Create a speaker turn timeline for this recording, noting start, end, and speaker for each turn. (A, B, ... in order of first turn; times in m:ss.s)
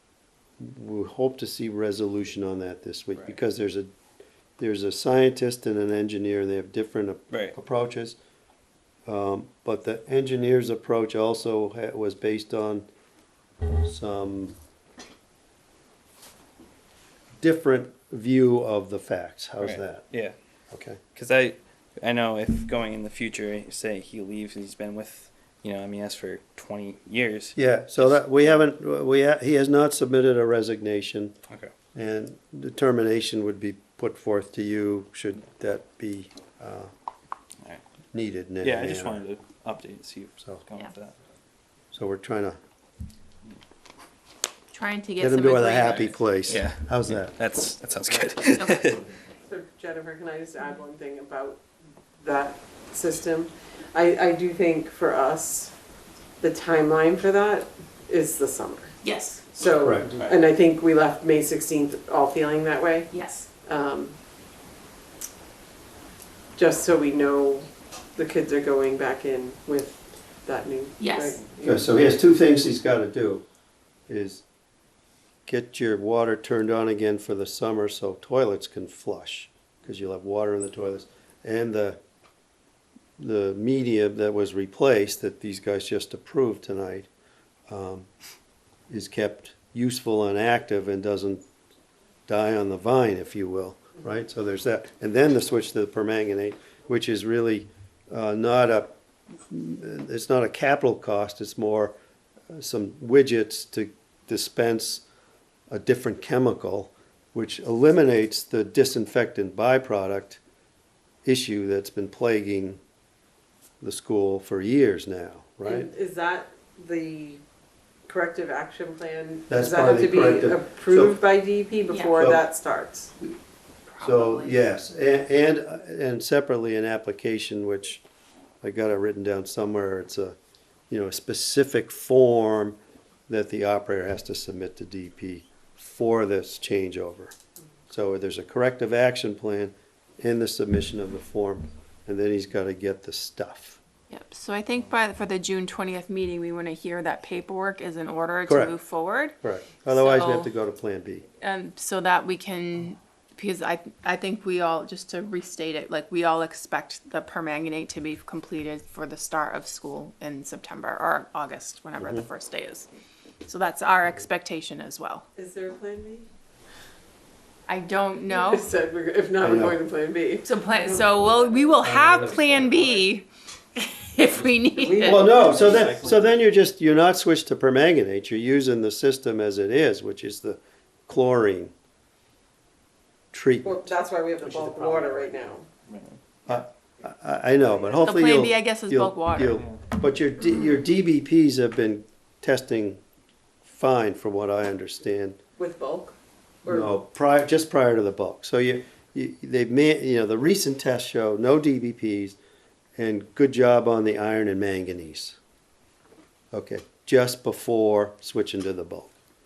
0:00.6-0:03.9 A
0:04.6-0:08.2 A
0:07.3-0:07.6 B
0:09.1-0:12.9 A
0:13.8-0:14.6 A
0:17.4-0:20.1 A
0:19.6-0:20.4 B
0:20.7-0:21.0 A
0:21.1-0:28.1 B
0:27.6-0:31.4 A
0:31.9-0:36.9 A
0:38.1-0:39.2 A
0:38.6-0:41.2 B
0:41.9-0:42.6 A
0:44.7-0:46.1 C
0:45.2-0:47.4 A
0:46.5-0:49.1 B
0:48.5-0:49.0 C
0:49.5-0:51.6 D
0:52.2-0:55.7 D
0:56.4-0:59.0 D
0:59.0-0:59.5 C
0:59.5-1:04.2 D
0:59.8-1:00.1 A
1:03.1-1:03.5 C
1:06.6-1:12.1 D
1:11.0-1:11.4 C
1:11.6-1:13.4 A
1:14.1-1:14.4 A
1:15.5-1:22.0 A
1:23.2-1:27.1 A
1:27.7-1:28.1 A
1:28.9-1:31.4 A
1:32.3-1:39.0 A
1:39.5-1:42.0 A
1:42.5-1:45.0 A
1:45.7-1:50.4 A
1:51.2-1:52.8 A
1:53.8-1:55.9 A
1:55.6-1:57.4 D
1:58.1-2:03.1 D
1:59.5-2:01.2 A
2:01.9-2:02.2 C
2:02.2-2:02.4 A
2:03.9-2:04.6 C
2:04.0-2:08.0 A
2:08.6-2:10.4 A
2:10.9-2:12.8 A
2:13.3-2:17.4 A
2:17.9-2:23.8 A
2:24.1-2:30.5 C
2:28.5-2:28.8 A
2:29.4-2:31.2 A
2:31.4-2:42.9 C
2:42.0-2:42.2 A
2:43.4-2:45.3 C
2:45.4-2:46.3 D
2:47.7-2:48.7 C
2:48.3-2:52.8 D
2:49.4-2:49.8 A
2:50.4-2:55.4 C
2:51.8-2:52.8 A
2:54.5-2:56.3 B
2:55.0-3:01.7 A
2:55.6-2:56.0 D
3:03.3-3:05.6 A
3:03.6-3:05.7 D
3:05.9-3:06.2 B
3:06.5-3:13.0 A
3:08.0-3:09.6 C
3:13.6-3:15.4 A
3:15.6-3:16.9 D
3:16.7-3:22.4 A
3:23.0-3:25.4 A
3:26.5-3:29.1 A